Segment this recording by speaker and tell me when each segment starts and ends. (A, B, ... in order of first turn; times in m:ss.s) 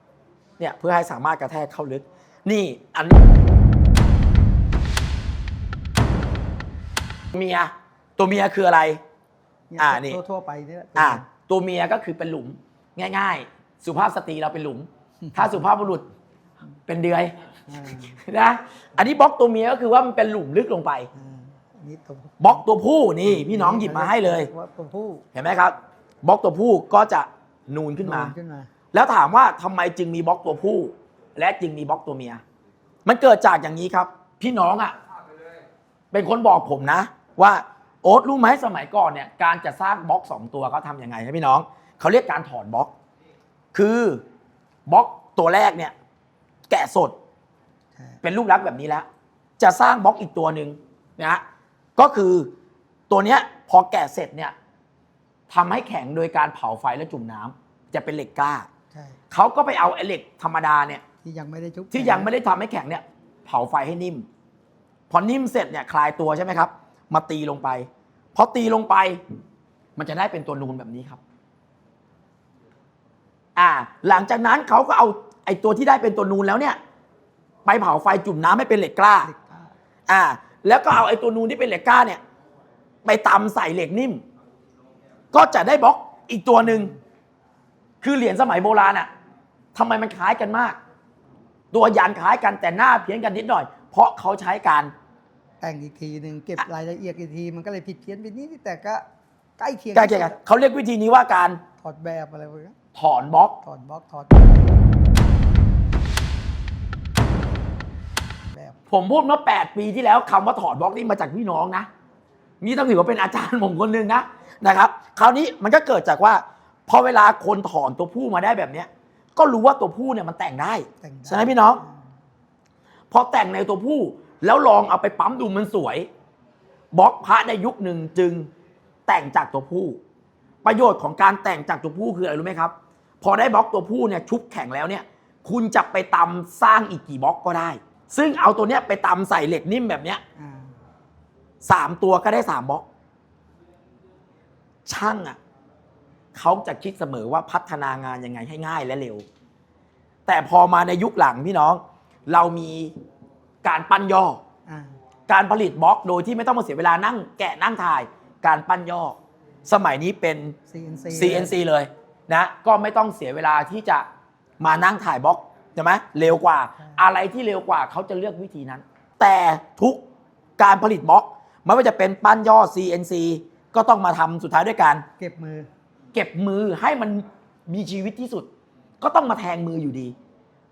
0:00.6-0:03.2 A
0:07.3-0:09.0 A
0:09.7-0:11.2 B
0:09.8-0:10.2 A
0:11.0-0:16.1 A
0:16.9-0:17.3 A
0:17.7-0:18.2 B
0:18.1-0:21.1 A
0:21.1-0:22.6 B
0:22.4-0:24.5 A
0:23.2-0:25.2 B
0:25.3-0:28.3 A
0:28.0-0:28.7 B
0:28.9-0:32.4 A
0:33.0-0:34.9 A
0:36.1-0:42.9 A
0:43.7-0:44.2 A
0:44.9-0:45.9 A
0:46.7-0:47.1 A
0:48.2-0:49.1 A
0:49.6-0:51.4 A
0:52.0-0:52.5 A
0:53.1-0:54.5 A
0:55.5-0:58.7 A
0:59.3-1:01.0 A
1:01.2-1:02.3 B
1:01.9-1:04.3 A
1:05.1-1:09.2 A
1:10.0-1:11.2 A
1:13.6-1:16.8 A
1:17.6-1:19.3 A
1:19.2-1:19.7 B
1:20.1-1:22.2 A
1:23.0-1:24.2 A
1:25.3-1:26.9 A
1:28.0-1:29.1 A
1:29.7-1:30.8 A
1:31.7-1:34.9 A
1:35.6-1:39.0 B
1:39.6-1:40.4 B
1:39.9-1:41.6 A
1:41.8-1:42.7 B
1:42.9-1:43.5 A
1:43.6-1:44.5 B
1:48.9-1:51.9 A
1:52.6-2:01.8 A
2:01.0-2:02.0 B
2:03.1-2:06.1 A
2:06.9-2:08.5 A
2:09.1-2:10.0 A
2:10.6-2:20.2 A
2:20.4-2:20.7 B
2:21.6-2:22.8 A
2:24.8-2:25.4 A
2:26.3-2:29.2 A
2:30.2-2:32.9 A
2:33.6-2:34.4 A
2:34.7-2:34.9 B
2:35.3-2:40.6 A
2:40.7-2:41.6 B
2:41.1-2:44.0 A
2:44.6-2:50.0 A
2:46.8-2:47.0 B
2:50.6-2:55.0 A
2:55.2-2:55.7 B
2:56.1-2:58.5 A
2:59.0-3:00.1 A